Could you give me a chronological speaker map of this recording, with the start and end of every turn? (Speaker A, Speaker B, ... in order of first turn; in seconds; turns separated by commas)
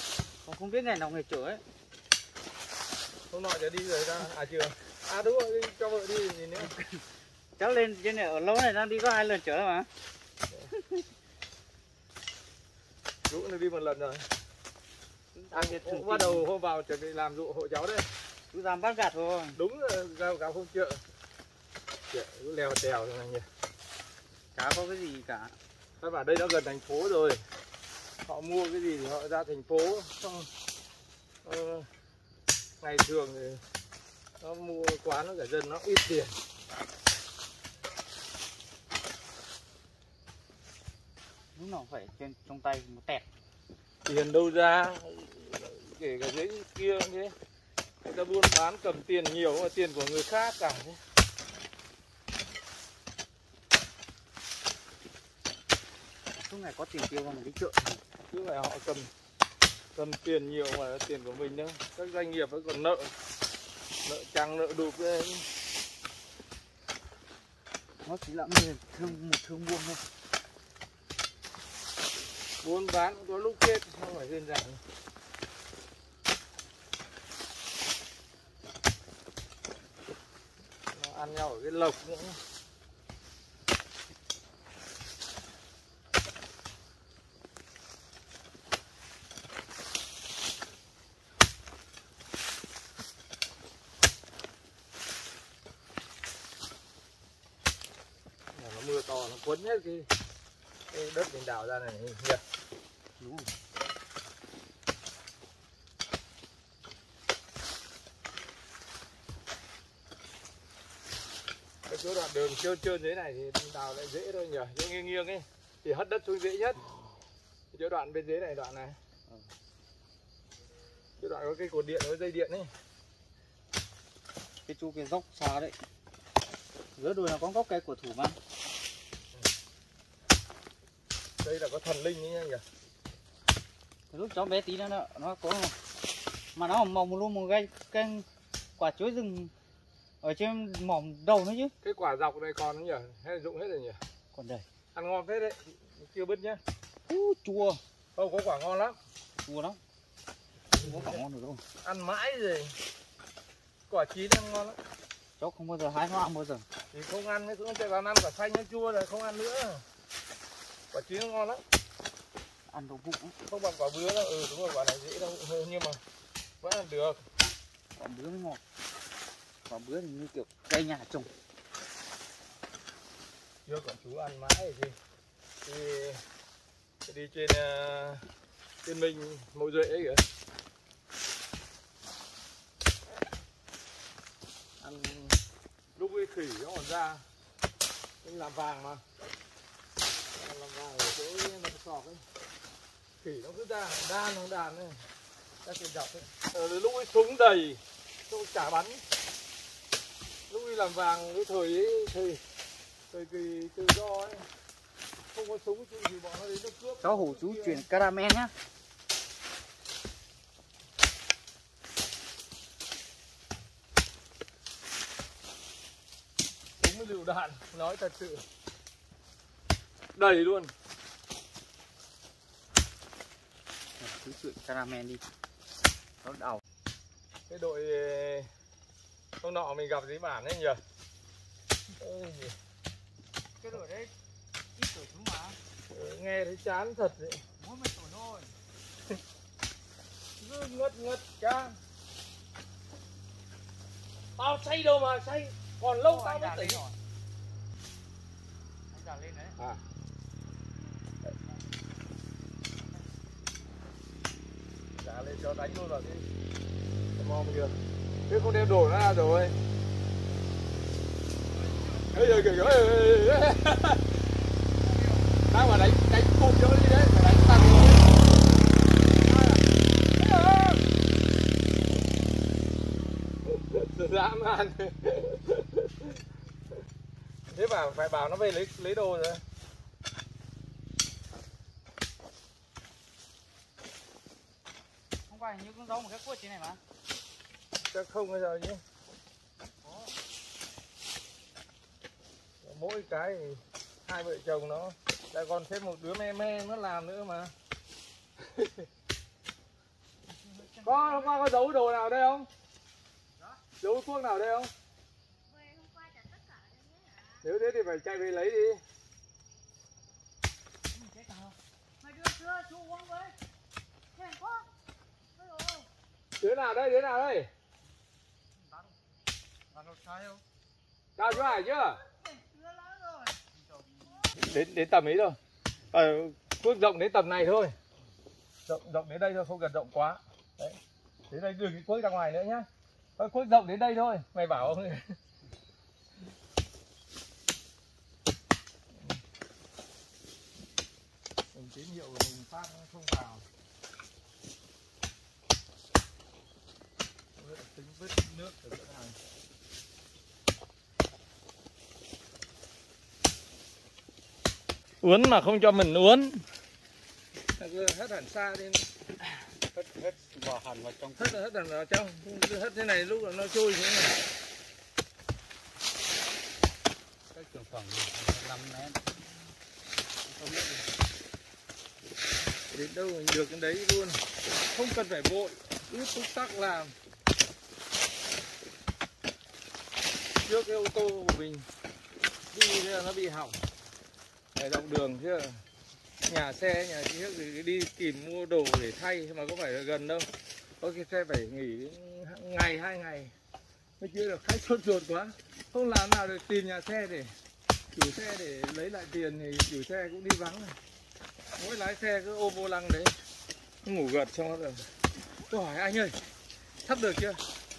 Speaker A: 0.4-1.6, Speaker B: 3.3-6.7, Speaker A: 6.6-7.0, Speaker A: 7.6-9.9, Speaker A: 10.8-11.0, Speaker B: 13.3-14.2, Speaker A: 15.3-16.4, Speaker B: 15.5-18.1, Speaker A: 18.5-19.6, Speaker B: 19.6-21.0, Speaker B: 22.1-23.4, Speaker A: 24.5-25.6, Speaker B: 26.0-27.4, Speaker B: 28.2-30.5, Speaker B: 31.4-31.9, Speaker B: 32.8-33.6, Speaker B: 34.4-36.4, Speaker A: 41.5-43.2, Speaker B: 44.0-47.4, Speaker B: 48.0-51.0, Speaker A: 56.4-58.0, Speaker B: 58.3-59.1, Speaker B: 59.9-63.1, Speaker B: 64.0-65.4, Speaker A: 68.0-70.0, Speaker B: 72.6-74.8, Speaker B: 80.9-82.4, Speaker B: 98.5-100.1, Speaker B: 100.9-102.4, Speaker A: 103.2-103.5, Speaker B: 111.9-116.8, Speaker B: 117.7-119.0, Speaker B: 121.2-122.7, Speaker A: 124.7-125.8, Speaker A: 127.0-128.4, Speaker B: 131.4-132.6, Speaker A: 134.1-135.8, Speaker A: 136.5-138.2, Speaker A: 138.8-139.5, Speaker A: 140.2-141.7, Speaker B: 141.8-144.0, Speaker A: 144.3-144.7, Speaker B: 144.9-146.6, Speaker A: 147.1-147.8, Speaker B: 148.2-148.9, Speaker A: 149.4-149.8, Speaker B: 150.7-151.2, Speaker A: 150.8-151.6, Speaker B: 151.8-152.7, Speaker B: 153.9-154.8, Speaker A: 155.4-156.7, Speaker B: 156.9-159.8, Speaker B: 160.9-161.6, Speaker A: 162.7-163.4, Speaker B: 163.5-166.0, Speaker B: 166.6-167.2, Speaker A: 167.9-168.6, Speaker A: 169.7-171.3, Speaker B: 173.7-174.9, Speaker B: 175.6-176.2, Speaker B: 177.1-178.2, Speaker B: 178.8-180.2, Speaker B: 184.8-185.4, Speaker B: 185.9-187.2, Speaker B: 188.2-189.0, Speaker B: 190.3-192.2, Speaker B: 193.2-195.0, Speaker B: 195.6-199.0, Speaker B: 200.5-202.4, Speaker B: 203.1-204.4, Speaker B: 205.3-207.9, Speaker A: 207.0-208.5, Speaker B: 216.8-218.4, Speaker B: 220.1-220.7, Speaker A: 224.0-225.2, Speaker A: 226.2-226.6, Speaker B: 227.5-228.5, Speaker B: 229.4-230.8, Speaker B: 232.0-232.5, Speaker A: 233.6-234.1, Speaker A: 234.8-235.6, Speaker B: 235.9-237.4, Speaker A: 237.6-238.6, Speaker B: 240.4-241.8, Speaker B: 244.4-246.8, Speaker A: 246.0-247.0, Speaker A: 248.9-249.6, Speaker B: 249.6-249.8, Speaker B: 254.9-256.2, Speaker B: 257.2-257.8, Speaker B: 258.3-259.6, Speaker A: 261.5-262.7, Speaker B: 262.1-264.1, Speaker A: 264.8-265.4, Speaker B: 265.5-268.4, Speaker B: 269.2-269.6, Speaker B: 270.2-270.8, Speaker B: 273.4-276.2, Speaker B: 277.5-279.4, Speaker A: 285.3-286.8, Speaker B: 287.9-288.8, Speaker A: 289.8-290.1, Speaker B: 292.6-297.5, Speaker B: 298.4-298.9, Speaker A: 300.2-301.4, Speaker B: 300.8-302.5, Speaker B: 303.8-304.7, Speaker C: 305.4-307.4, Speaker B: 307.4-308.8, Speaker A: 310.9-311.5, Speaker C: 312.0-313.3, Speaker C: 314.1-314.7, Speaker C: 315.4-315.9, Speaker B: 316.4-317.5, Speaker A: 319.7-320.4, Speaker B: 321.2-322.0, Speaker A: 322.9-324.2, Speaker B: 324.3-325.4, Speaker B: 325.9-327.8, Speaker B: 328.7-330.8, Speaker B: 331.3-332.7, Speaker B: 333.2-335.1, Speaker B: 341.5-343.4, Speaker B: 347.4-349.2, Speaker B: 355.0-356.4, Speaker B: 357.6-358.9, Speaker A: 359.7-361.4, Speaker B: 361.2-364.1, Speaker A: 367.3-369.0, Speaker A: 370.2-370.9, Speaker B: 372.7-376.9, Speaker B: 380.4-381.6, Speaker B: 382.5-383.6, Speaker B: 384.5-385.6, Speaker B: 386.3-390.3, Speaker B: 390.8-393.3, Speaker B: 394.0-397.3, Speaker B: 397.9-400.8, Speaker B: 401.6-403.1, Speaker B: 403.9-404.9, Speaker B: 405.5-406.2, Speaker B: 406.9-407.4